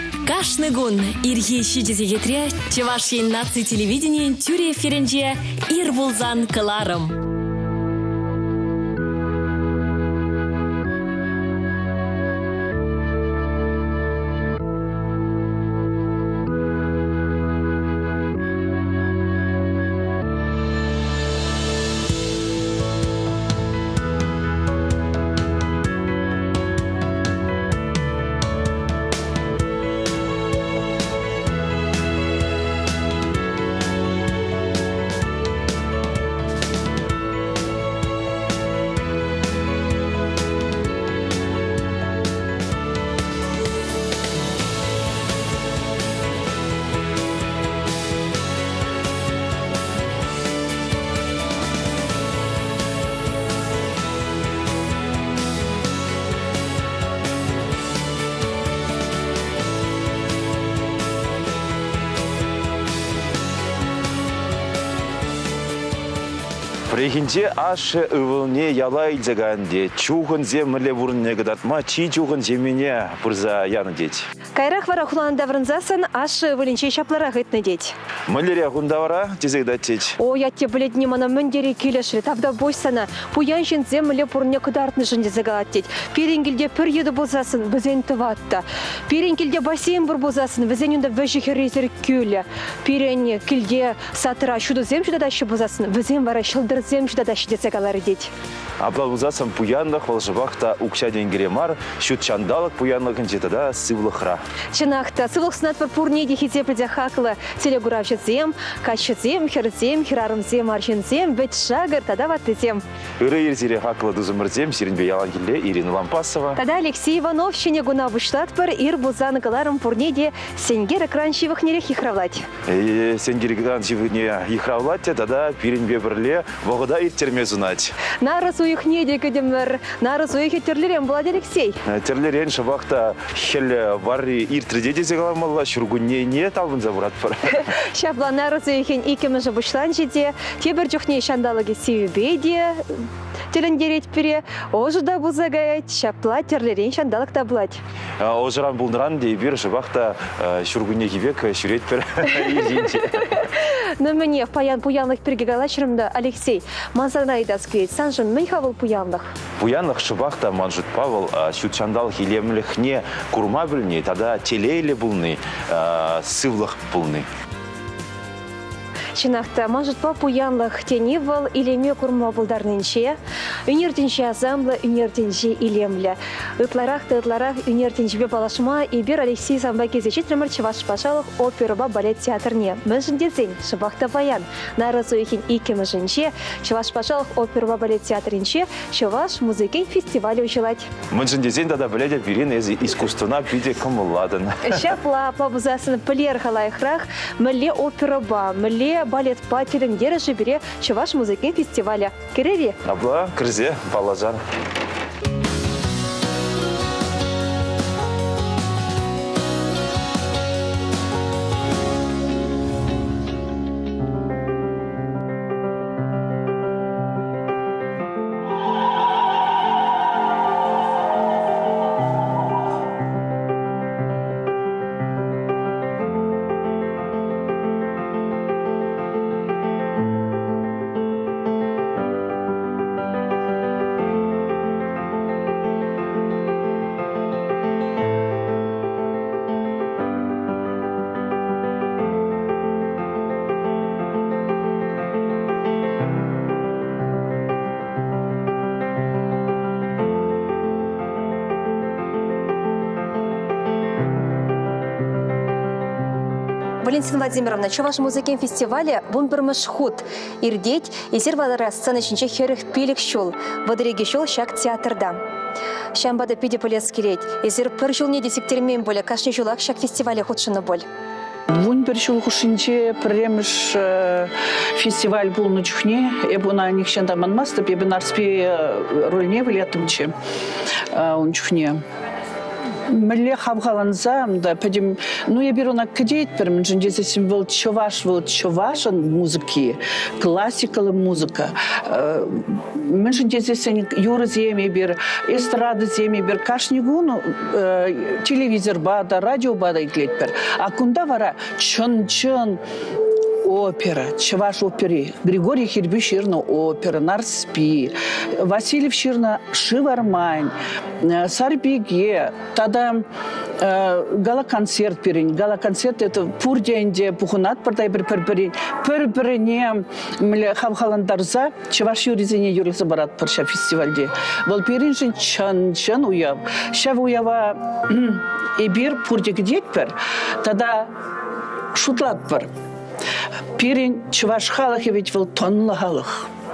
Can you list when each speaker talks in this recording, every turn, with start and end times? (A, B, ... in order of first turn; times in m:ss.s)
0:00.2-0:07.2 A
1:06.9-1:14.3 B
1:14.5-1:17.9 C
1:18.3-1:20.2 B
1:20.2-1:38.3 C
1:38.8-1:44.4 B
1:44.7-1:52.8 C
1:53.2-1:56.6 B
1:56.6-2:02.5 C
2:02.7-2:08.0 B
2:08.2-2:11.8 C
2:11.8-2:17.6 B
2:17.6-2:27.8 C
2:28.2-2:33.4 B
2:33.6-2:39.4 C
2:39.6-2:47.3 B
2:49.1-3:10.9 C
3:11.1-3:14.8 B
3:14.6-3:22.8 C
3:22.8-3:24.4 B
4:16.8-4:25.2 C
4:25.9-4:30.8 C
4:31.5-4:40.1 D
4:40.9-4:41.8 D
4:42.9-5:02.6 D
5:03.4-5:13.1 D
5:13.6-5:30.9 D
5:31.7-5:32.5 D
5:33.6-5:36.3 D